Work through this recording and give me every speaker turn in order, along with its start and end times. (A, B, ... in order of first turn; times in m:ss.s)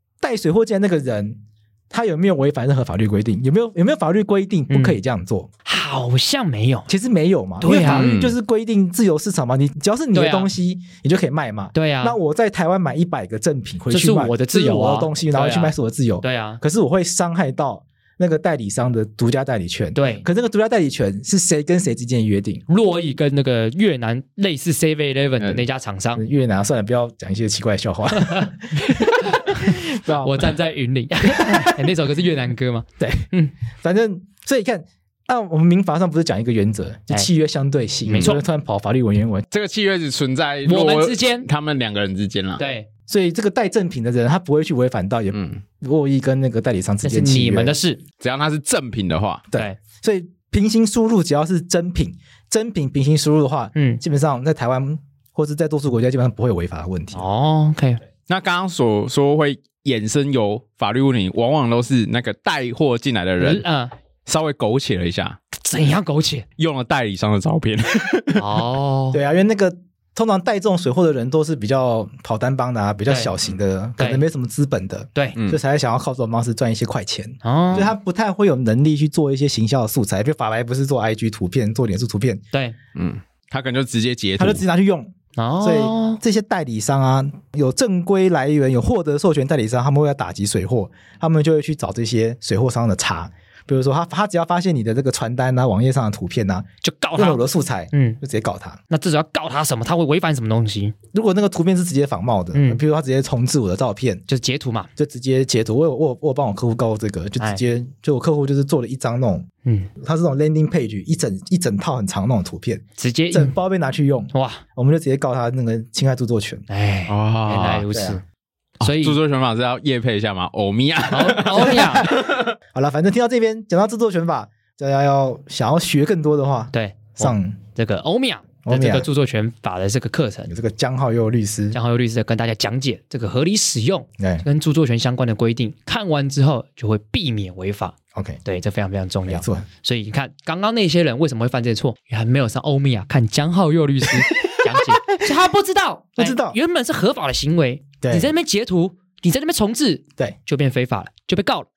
0:00.2-0:01.4 A
0:01.9-0:05.5 A
0:04.7-0:05.0 B
0:05.6-0:06.9 B
0:06.9-0:22.6 A
0:07.6-0:08.1 B
0:07.8-0:08.4 C
0:10.1-0:10.5 B
0:11.7-0:12.2 B
0:13.9-0:16.6 B
0:20.0-0:20.3 B
0:22.7-0:26.2 B
0:26.2-0:30.5 A
0:28.3-0:33.5 B
0:31.4-0:31.7 A
0:33.0-0:33.3 A
0:33.8-0:39.4 A
0:38.1-0:38.4 C
0:38.1-0:38.4 B
0:39.5-0:42.6 C
0:40.7-0:41.5 B
0:42.6-0:42.9 B
0:43.1-0:47.8 A
0:45.3-0:45.6 C
0:47.0-0:48.0 B
0:48.2-0:49.5 C
0:49.5-0:57.2 A
0:53.7-0:54.0 B
0:57.1-0:58.0 B
0:58.3-1:03.6 C
1:03.4-1:03.9 B
1:04.3-1:05.4 C
1:05.6-1:06.5 B
1:06.6-1:08.6 C
1:08.4-1:09.2 B
1:09.1-1:22.4 A
1:13.1-1:13.3 B
1:14.0-1:14.2 B
1:17.4-1:17.9 B
1:23.0-1:24.6 C
1:24.4-1:38.8 A
1:25.4-1:26.2 B
1:36.8-1:38.2 B
1:38.9-1:41.0 B
1:41.1-1:44.2 A
1:42.5-1:42.8 B
1:44.3-1:44.9 B
1:45.0-1:56.7 A
1:49.6-1:49.9 B
1:53.0-1:53.6 B
1:54.3-1:54.6 B
1:56.7-1:58.2 B
1:57.1-1:57.8 C
1:57.9-1:58.2 A
1:58.8-2:02.5 C
1:58.8-1:59.2 B
2:01.1-2:02.1 B
2:01.6-2:07.6 A
2:06.7-2:10.5 B
2:08.7-2:09.1 A
2:10.5-2:11.8 A
2:11.7-2:31.7 B
2:14.2-2:14.4 A
2:18.1-2:18.4 A
2:19.3-2:19.6 A
2:24.4-2:24.9 A
2:26.2-2:26.6 A
2:28.0-2:28.3 A